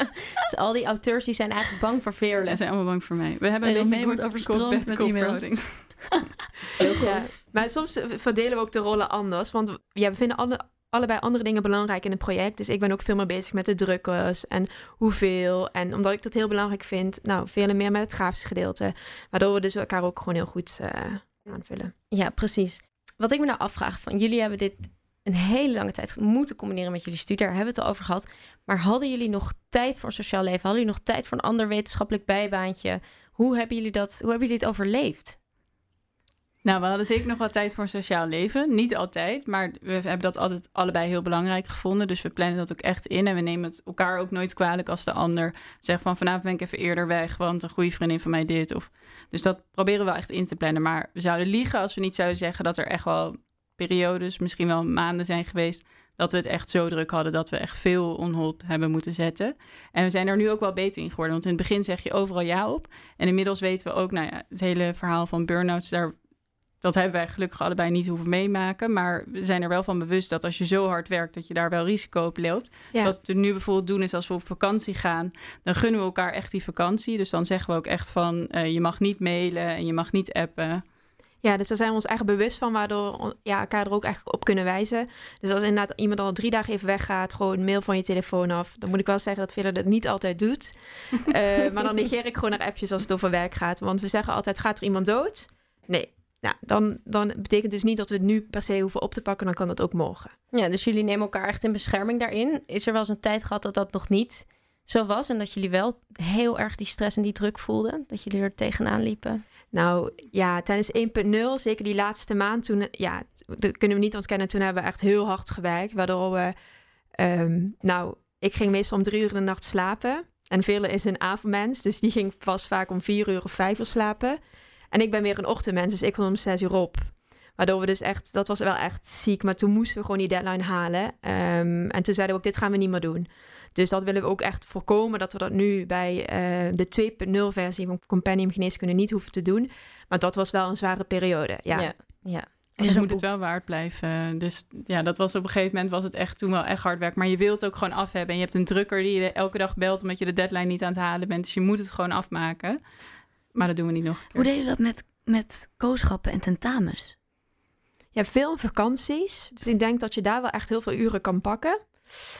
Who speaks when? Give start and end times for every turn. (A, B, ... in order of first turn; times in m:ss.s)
0:00.4-0:02.6 A
0:02.5-0:06.0 B
0:03.6-0:06.9 C
0:06.8-0:07.2 A
0:06.9-0:21.9 D
0:22.1-0:35.4 A
0:36.6-1:06.1 B
1:06.8-1:20.8 B
1:21.4-1:40.3 D
1:40.5-1:49.4 A
1:49.7-1:56.5 D
1:57.2-2:04.4 D
2:04.9-2:21.9 D
2:21.7-2:23.1 A
2:22.8-2:32.8 B
2:22.8-2:23.2 D
2:33.5-2:34.5 B
2:34.4-2:37.2 C
2:38.2-2:42.1 D